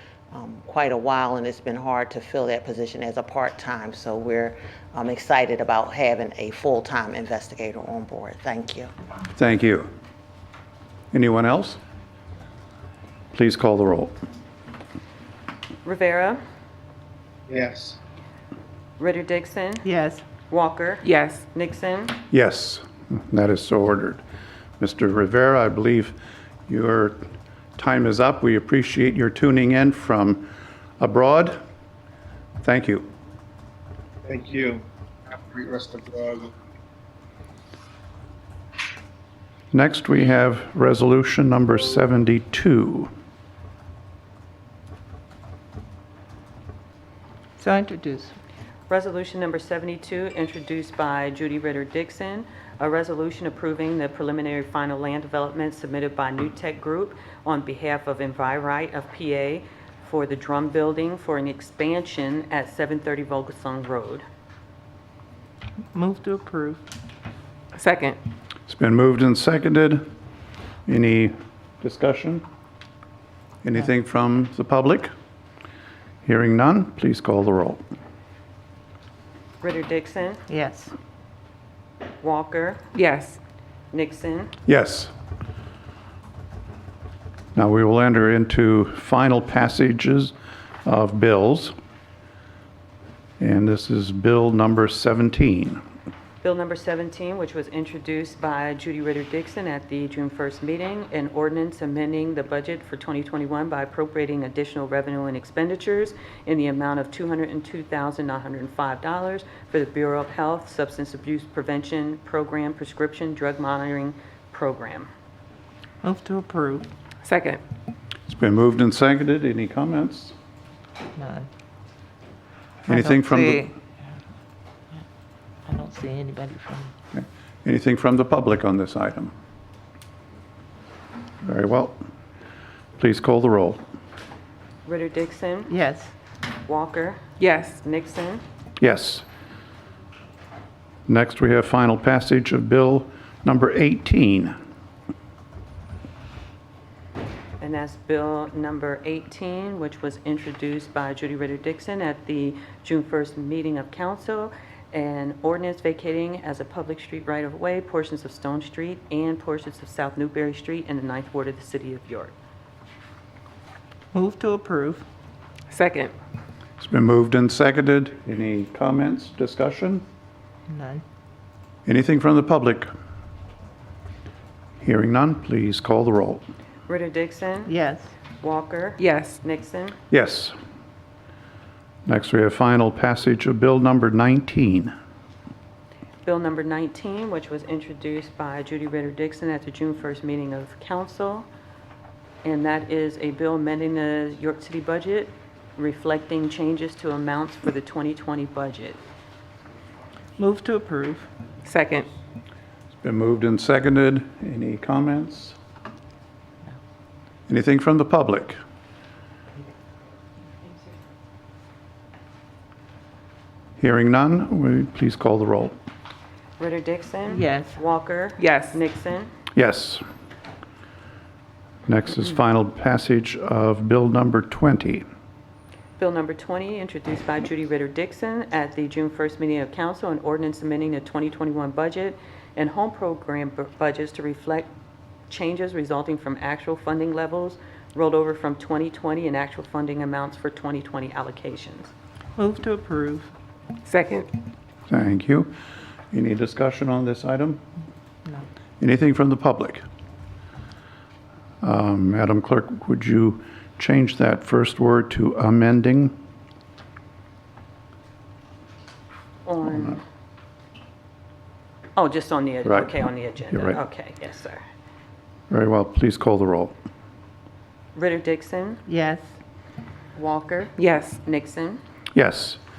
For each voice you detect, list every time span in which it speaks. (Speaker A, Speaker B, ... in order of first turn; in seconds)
Speaker A: 0.3-8.9
Speaker B: 9.4-9.9, 11.1-11.8, 13.3-14.2, 22.3-24.2, 24.8-26.2, 26.7-27.2, 27.8-30.5, 31.0-31.6, 32.6-33.1, 39.7-43.1, 68.7-70.1, 70.9-72.5, 73.6-75.1, 76.2-77.8, 84.7-85.1, 87.5-90.3, 90.8-91.7, 93.4-95.8, 118.3-120.3, 122.9-123.7, 127.1-129.3, 131.4-132.0, 133.0-133.8, 138.8-139.2, 141.1-144.6, 166.8-170.0, 171.9-172.9, 174.8-176.4, 180.1-180.6, 182.1-184.9, 203.0-205.6, 207.5-208.6, 213.8-215.8, 219.6-220.0, 221.9-225.1, 244.9-245.5, 246.1-247.6, 248.8-249.8, 251.6-256.2, 262.6-262.9, 263.5-263.8, 265.5-266.7, 272.1-272.6
Speaker C: 15.8-16.4, 19.0-19.9, 20.5-22.2, 48.9-64.2, 79.6-80.4, 82.2-82.8, 83.9-84.5, 96.4-115.1, 134.8-135.7, 136.7-137.2, 137.8-138.4, 147.6-162.3, 176.9-177.7, 178.4-180.0, 186.2-191.5, 192.4-199.0, 216.6-219.3, 226.0-234.7, 235.3-241.9, 259.5-260.0, 262.0-264.6, 267.9-268.8, 270.1-271.8
Speaker D: 17.5-18.0, 34.3-36.5
Speaker E: 19.8-20.2, 47.6-48.4, 65.9-66.8, 80.5-80.9, 116.0-116.9, 121.2-121.5, 122.9-123.7, 125.7-126.9, 135.7-136.1, 164.1-165.1, 170.7-171.0, 177.7-178.1, 200.4-201.3, 217.3-217.8, 242.4-243.3, 268.9-269.3
Speaker F: 21.0-21.4, 67.7-68.2, 82.9-83.4, 117.2-117.6, 137.4-137.8, 165.7-166.1, 179.0-179.4, 201.7-202.1, 218.4-218.8, 243.9-244.3, 270.8-271.2